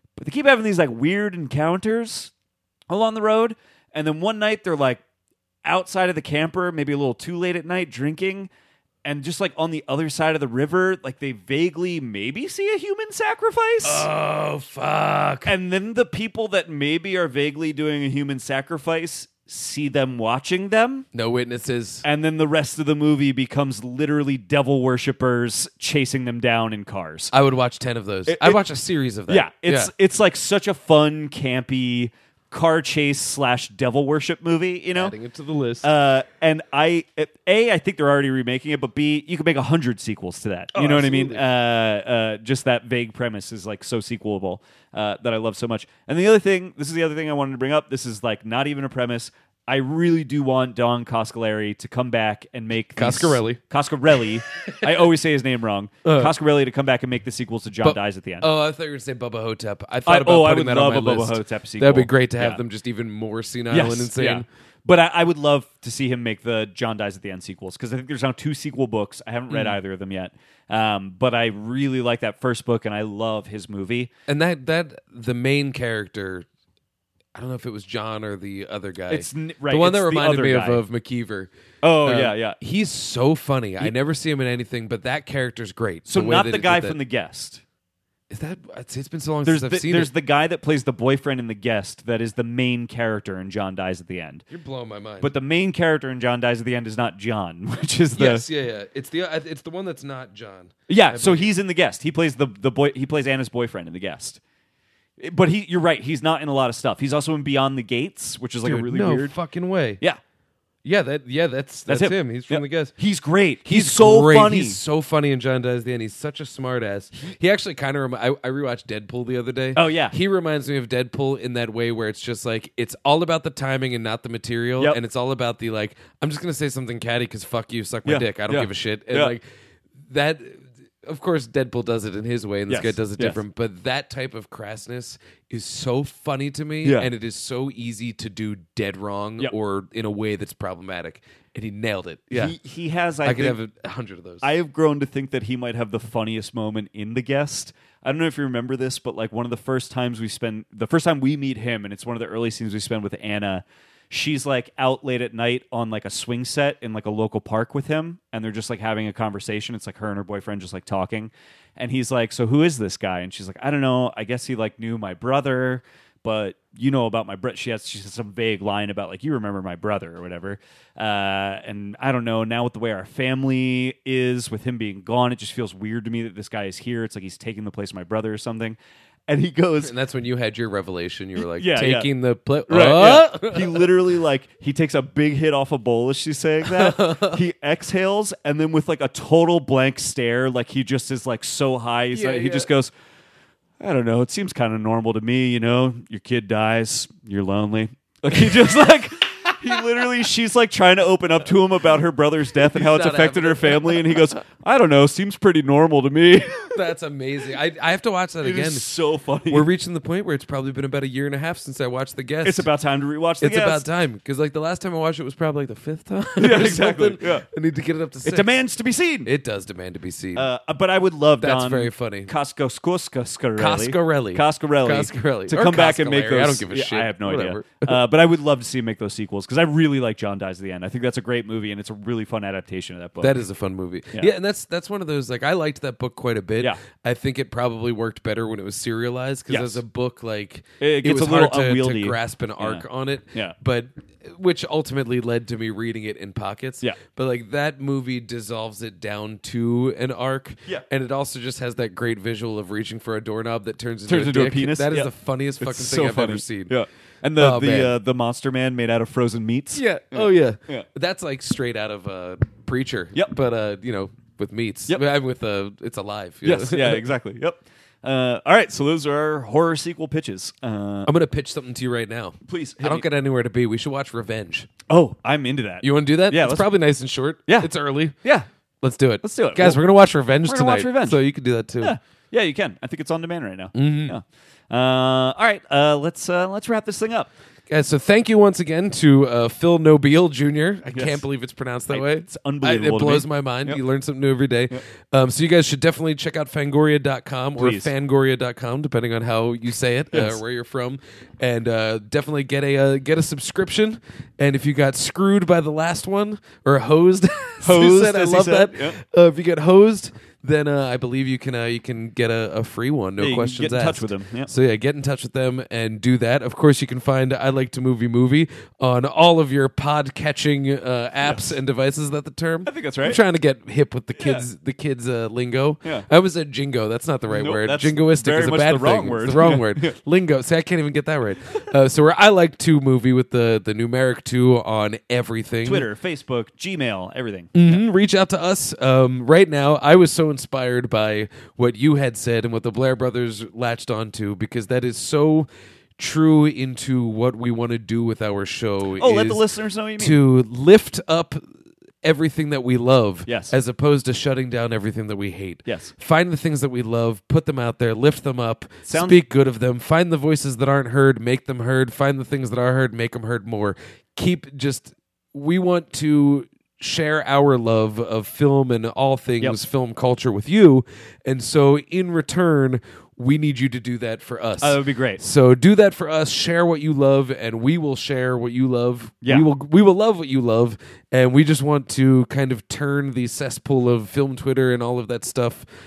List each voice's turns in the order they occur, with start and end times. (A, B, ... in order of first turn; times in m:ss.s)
0:00.2-0:02.3 A
0:02.9-0:05.0 A
0:05.6-0:08.5 A
0:09.0-0:14.1 A
0:13.8-0:15.6 B
0:15.4-0:21.1 A
0:21.1-0:22.0 B
0:22.0-0:27.3 A
0:27.3-0:29.9 B
0:28.3-0:28.6 A
0:29.3-0:35.2 A
0:35.0-0:35.9 B
0:35.8-0:58.5 A
0:40.7-0:41.5 B
0:53.0-0:53.6 B
0:54.5-0:54.9 B
0:56.0-0:56.4 B
0:57.8-1:04.5 B
1:00.0-1:02.6 A
1:03.7-1:14.1 A
1:09.5-1:09.8 B
1:14.3-1:16.5 B
1:17.4-1:21.5 B
1:19.1-1:20.8 A
1:21.8-1:22.6 A
1:22.0-1:27.0 B
1:26.1-1:27.6 A
1:28.3-1:30.1 B
1:29.4-1:34.4 A
1:34.5-1:35.3 B
1:35.2-1:38.5 A
1:38.2-1:41.5 B
1:40.9-1:44.4 A
1:45.2-1:49.3 A
1:48.6-1:50.0 B
1:50.8-1:52.9 B
1:51.9-1:54.8 A
1:53.6-2:09.4 B
1:59.8-2:00.2 A
2:08.1-2:09.4 A
2:10.1-2:22.6 B
2:12.7-2:13.4 A
2:16.8-2:17.1 A
2:22.3-2:23.6 A
2:23.2-2:24.5 B
2:24.4-2:59.9 A
2:59.8-3:04.0 B
3:01.4-3:02.1 A
3:02.7-3:12.9 A
3:06.7-3:07.4 B
3:12.1-3:12.7 B
3:13.8-3:26.6 A
3:22.6-3:24.4 B
3:26.6-3:28.9 B
3:28.4-3:29.7 A
3:29.5-3:32.7 B
3:32.4-3:33.9 A
3:33.4-3:38.6 B
3:36.4-3:37.4 A
3:38.2-3:39.3 A
3:39.2-3:40.5 B
3:40.4-3:53.4 A
3:41.4-3:42.3 B
3:43.6-3:48.0 B
3:53.2-4:16.8 B
3:59.5-3:59.8 A
4:00.8-4:03.6 A
4:14.1-4:20.8 A
4:17.4-4:18.0 B
4:19.7-4:27.1 B
4:26.4-4:31.1 A
4:31.1-4:34.7 B
4:32.4-4:33.1 A
4:34.9-4:36.7 A
4:35.8-4:38.2 B
4:38.8-4:42.0 B
4:39.2-4:39.8 A
4:40.4-4:41.2 A
4:41.8-4:47.3 A
4:43.7-4:44.2 B
4:47.7-5:35.9 B
4:50.9-4:51.2 A
4:51.9-4:53.8 A
4:57.6-4:57.9 A
5:00.1-5:00.4 A
5:07.6-5:09.0 A
5:13.2-5:14.5 A
5:21.2-5:21.5 A
5:22.7-5:23.2 A
5:24.2-5:24.4 A
5:27.3-5:29.9 A
5:35.6-5:37.8 A
5:37.6-5:49.4 B
5:49.0-5:50.2 A
5:50.0-5:51.4 B
5:52.0-6:25.6 B
5:53.3-5:53.6 A
5:55.7-5:55.9 A
5:58.9-5:59.2 A
6:14.6-6:15.2 A